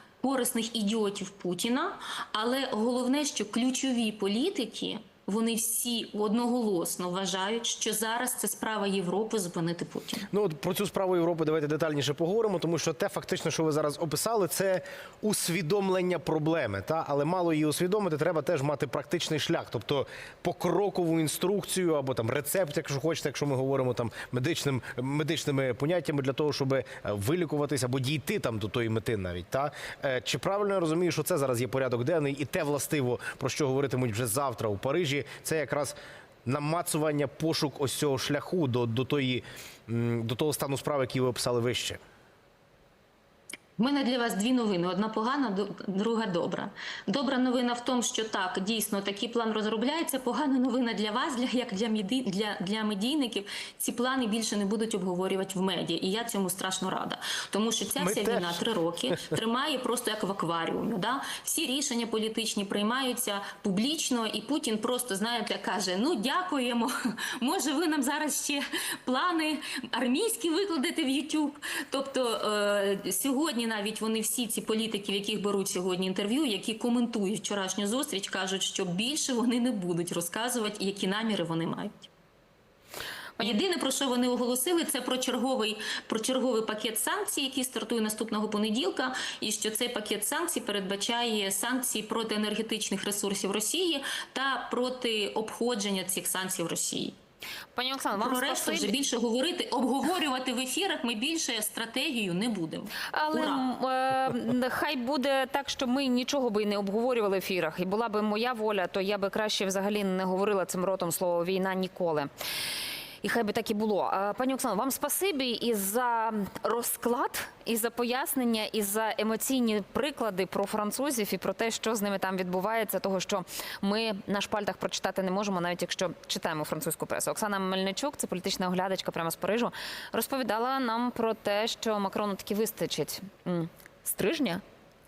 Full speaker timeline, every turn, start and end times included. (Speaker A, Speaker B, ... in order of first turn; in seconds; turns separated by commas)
Speaker A: 0.2-10.3, Speaker B: 10.3-42.0, Speaker A: 43.8-82.1, Speaker B: 58.0-59.1, Speaker A: 83.4-97.2, Speaker C: 97.7-98.9, Speaker A: 98.1-103.6, Speaker C: 103.1-112.3, Speaker C: 113.2-134.6